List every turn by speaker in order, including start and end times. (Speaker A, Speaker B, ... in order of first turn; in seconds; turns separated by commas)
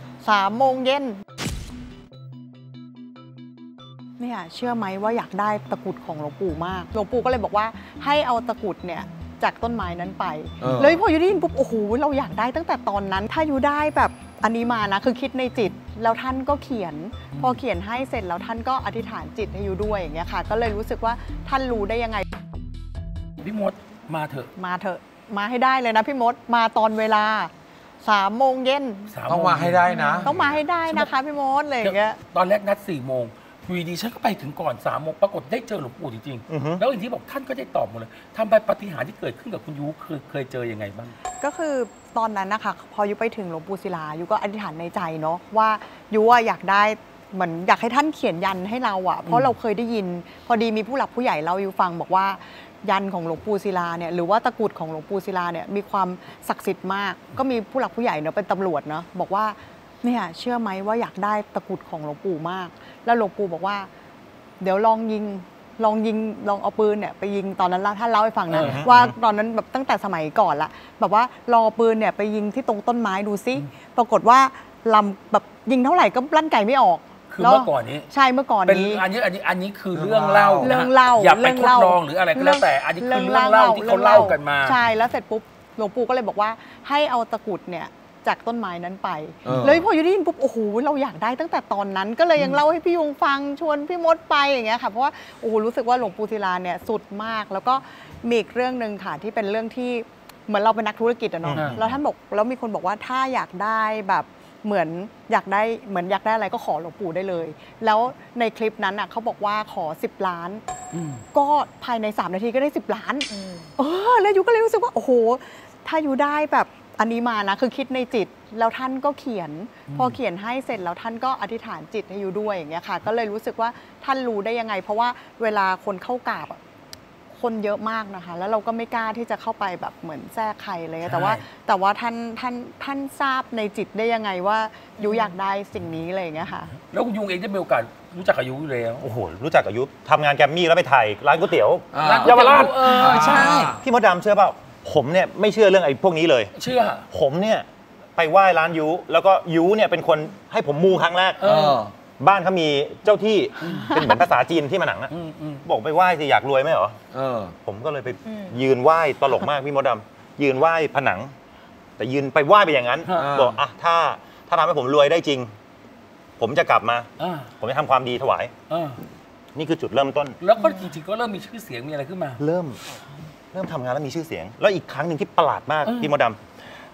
Speaker A: 0.2-1.2, Speaker A: 4.2-22.2, Speaker B: 10.6-11.0, Speaker C: 23.4-24.5, Speaker A: 24.6-27.5, Speaker A: 28.0-29.1, Speaker C: 29.1-30.3, Speaker B: 29.3-30.3, Speaker A: 29.9-32.2, Speaker C: 31.8-41.1, Speaker D: 36.5-36.8, Speaker A: 41.4-63.9, Speaker C: 49.2-49.5, Speaker A: 64.6-79.0, Speaker C: 68.5-68.9, Speaker D: 68.6-69.2, Speaker C: 77.3-78.1, Speaker C: 78.7-84.8, Speaker B: 79.9-80.7, Speaker A: 80.6-110.6, Speaker B: 89.4-89.8, Speaker D: 101.4-102.0, Speaker C: 110.9-111.2, Speaker A: 111.3-126.6, Speaker C: 119.9-120.2, Speaker A: 127.3-136.7, Speaker C: 131.0-131.4, Speaker C: 136.8-139.1, Speaker D: 139.0-146.5, Speaker B: 141.9-143.8, Speaker C: 142.0-143.7, Speaker C: 146.5-147.1, Speaker D: 147.1-151.4, Speaker C: 151.4-151.8, Speaker B: 151.4-151.9, Speaker D: 152.2-155.1, Speaker C: 153.6-153.9, Speaker A: 153.8-154.0, Speaker C: 155.1-155.6, Speaker D: 155.6-157.0, Speaker B: 157.1-157.5, Speaker D: 157.6-161.3, Speaker D: 162.0-165.5, Speaker C: 163.1-163.4, Speaker B: 163.1-163.6, Speaker D: 166.4-167.1, Speaker C: 167.2-167.5, Speaker D: 167.6-168.5, Speaker C: 168.7-169.0, Speaker D: 169.5-170.4, Speaker C: 170.4-172.4, Speaker D: 172.4-172.8, Speaker D: 173.5-176.4, Speaker C: 175.8-176.1